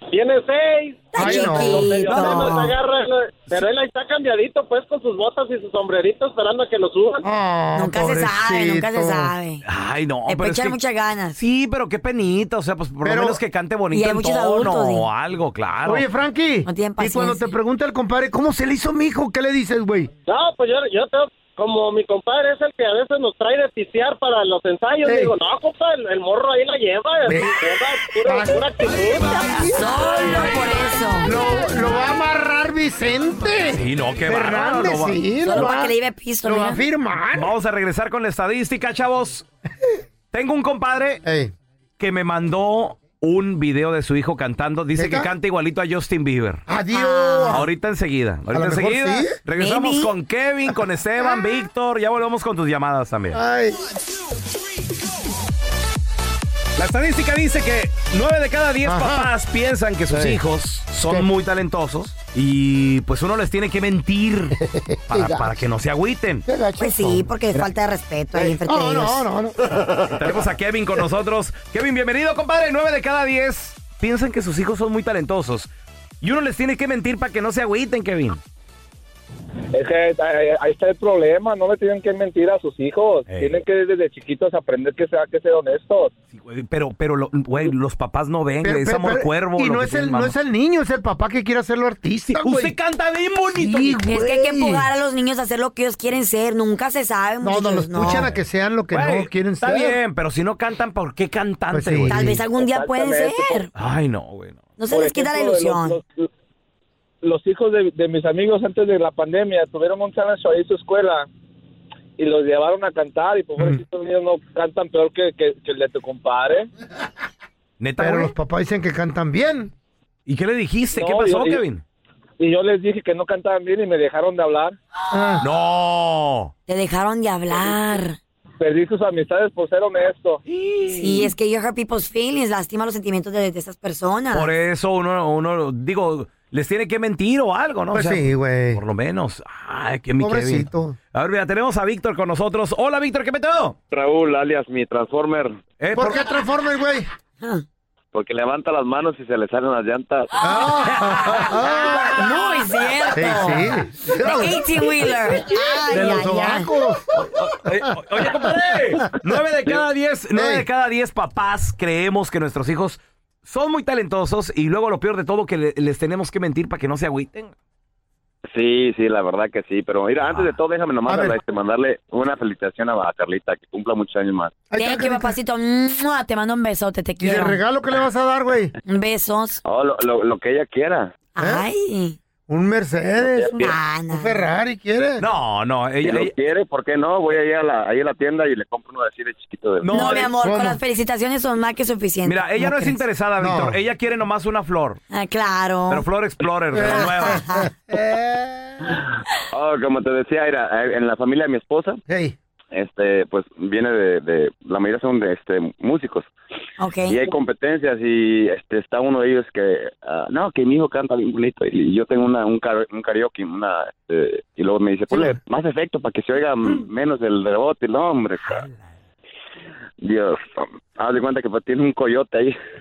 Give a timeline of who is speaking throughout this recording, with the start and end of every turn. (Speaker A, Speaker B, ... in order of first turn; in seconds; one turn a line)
Speaker A: 0.1-7.2
Speaker B: 1.1-2.7
Speaker C: 1.1-2.5
Speaker C: 7.2-9.3
Speaker B: 7.8-9.7
Speaker D: 9.7-10.8
Speaker B: 10.3-11.4
Speaker D: 11.3-16.1
Speaker C: 13.0-13.4
Speaker B: 13.9-15.1
Speaker C: 15.8-20.1
Speaker B: 16.6-17.5
Speaker A: 20.3-29.4
Speaker C: 25.0-25.4
Speaker C: 27.3-27.6
Speaker C: 28.2-28.7
Speaker B: 29.2-31.4
Speaker C: 29.4-30.4
Speaker C: 31.2-35.9
Speaker D: 33.7-35.2
Speaker B: 35.4-36.8
Speaker C: 36.4-37.5
Speaker D: 37.4-39.5
Speaker D: 40.3-41.2
Speaker C: 41.2-41.5
Speaker D: 42.0-46.6
Speaker C: 45.0-45.3
Speaker C: 46.7-47.7
Speaker B: 46.9-47.6
Speaker D: 47.5-53.4
Speaker C: 48.5-49.4
Speaker B: 49.6-50.1
Speaker C: 53.3-53.8
Speaker D: 56.8-64.6
Speaker C: 58.8-59.3
Speaker C: 60.1-60.4
Speaker C: 64.6-65.6
Speaker D: 65.1-66.5
Speaker C: 66.5-67.7
Speaker B: 66.8-69.3
Speaker C: 68.3-69.6
Speaker D: 70.1-75.7
Speaker D: 76.2-78.4
Speaker E: 80.7-86.1
Speaker D: 83.3-83.6
Speaker D: 86.3-90.3
Speaker C: 88.6-92.8
Speaker D: 92.3-94.0
Speaker C: 93.5-94.9
Speaker B: 94.0-98.3
Speaker C: 97.4-100.0
Speaker D: 98.9-102.4
Speaker C: 101.7-102.4
Speaker B: 102.1-103.7
Speaker D: 103.8-104.6
Speaker B: 104.8-106.0
Speaker E: 107.3-111.2
Speaker E: 112.3-116.6
Speaker D: 117.8-118.3
Speaker C: 118.0-119.7
Speaker D: 120.3-121.8
Speaker E: 122.6-124.7
Speaker C: 125.1-125.5
Speaker D: 125.4-126.5
Speaker B: 126.7-128.2
Speaker E: 128.7-130.3
Speaker B: 130.9-134.5
Speaker D: 134.3-143.8
Speaker C: 137.9-138.8
Speaker C: 140.2-141.0
Speaker F: 143.9-145.6
Speaker D: 145.8-146.2
Speaker C: 145.9-147.1
Speaker F: 148.1-150.3
Speaker C: 150.4-152.3
Speaker B: 151.3-156.7
Speaker C: 153.1-157.0
Speaker D: 157.1-167.5
Speaker C: 158.2-159.0
Speaker C: 160.3-160.7
Speaker F: 168.5-174.5
Speaker D: 170.2-170.6
Speaker C: 171.1-171.4
Speaker C: 174.7-175.3
Speaker B: 174.8-177.6
Speaker C: 177.2-178.7
Speaker B: 178.8-179.6
Speaker F: 179.7-181.2
Speaker B: 181.4-182.2
Speaker C: 181.4-181.7
Speaker C: 182.5-185.2
Speaker F: 183.2-183.7
Speaker B: 183.6-184.4
Speaker D: 185.2-186.3
Speaker F: 186.0-190.2
Speaker D: 189.8-190.3
Speaker B: 189.9-193.0
Speaker C: 190.3-190.8
Speaker D: 192.2-195.0
Speaker C: 193.4-193.8
Speaker B: 195.1-196.1
Speaker D: 195.9-197.4
Speaker C: 196.7-198.8
Speaker B: 196.8-197.7
Speaker F: 199.5-202.0
Speaker C: 202.1-202.3
Speaker F: 202.7-206.3
Speaker B: 206.8-207.2
Speaker F: 207.1-218.7
Speaker F: 220.0-222.6